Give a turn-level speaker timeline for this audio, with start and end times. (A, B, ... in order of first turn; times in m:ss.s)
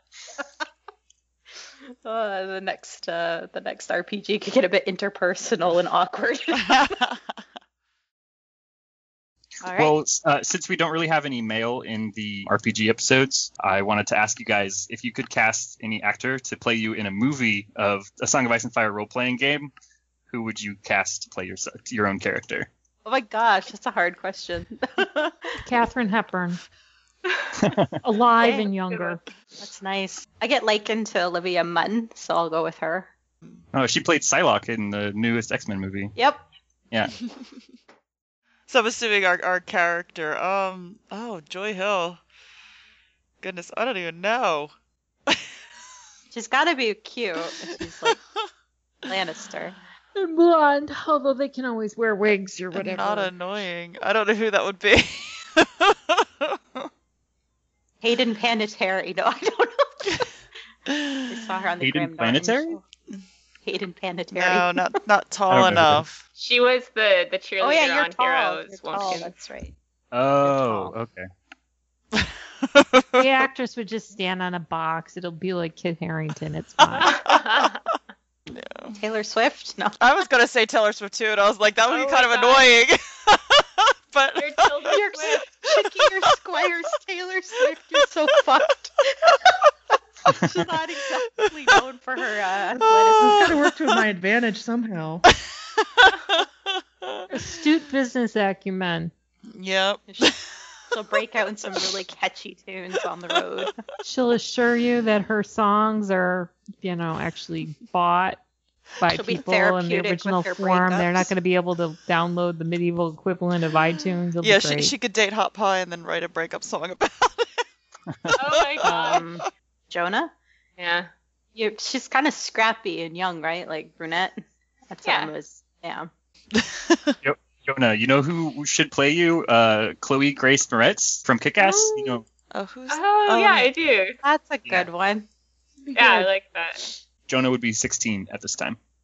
0:02.0-0:06.8 A
0:06.6-0:07.2 B
0:09.6-0:10.0 A
0:09.7-0:19.7 C
0:20.3-0:22.7 C
0:23.0-0:25.5 A
0:25.6-0:26.6 D
0:27.6-0:28.0 C
0:28.0-0:29.2 D
0:28.4-0:28.7 A
0:29.6-0:33.1 A
0:33.7-0:36.1 C
0:36.2-0:36.4 A
0:38.7-0:42.2 B
0:43.4-0:44.7 B
0:46.3-0:48.2 A
0:49.1-0:49.8 A
0:50.2-0:53.3 D
0:52.8-0:56.9 B
0:58.0-1:00.1 A
1:00.9-1:01.4 B
1:01.3-1:02.8 A
1:01.8-1:02.8 C
1:03.6-1:04.9 A
1:04.3-1:06.2 B
1:05.5-1:06.0 C
1:06.4-1:09.3 E
1:07.6-1:09.8 A
1:10.1-1:11.3 C
1:10.4-1:10.9 A
1:12.1-1:13.4 B
1:13.2-1:17.2 D
1:17.0-1:17.8 E
1:17.3-1:17.6 B
1:18.5-1:19.0 B
1:19.0-1:20.0 A
1:20.0-1:26.3 B
1:21.9-1:22.8 E
1:24.4-1:25.4 E
1:24.9-1:29.5 A
1:30.3-1:33.5 A
1:32.9-1:33.6 B
1:33.2-1:35.2 F
1:36.0-1:36.4 B
1:37.3-1:39.1 D
1:39.5-1:40.4 B
1:40.9-1:43.7 A
1:44.0-1:48.4 D
1:49.0-1:55.0 D
1:49.1-1:51.3 A
1:54.4-1:57.6 B
1:58.1-1:58.4 C
1:58.4-1:59.2 E
1:58.5-1:59.5 B
1:58.8-2:00.3 A
2:00.8-2:01.1 E
2:01.6-2:06.1 A
2:05.0-2:05.3 E
2:06.6-2:07.2 B
2:07.2-2:12.3 C
2:11.6-2:12.2 D
2:12.5-2:13.7 B
2:12.9-2:14.2 E
2:14.2-2:15.3 A
2:15.8-2:16.3 D
2:16.0-2:16.9 E
2:17.3-2:18.8 C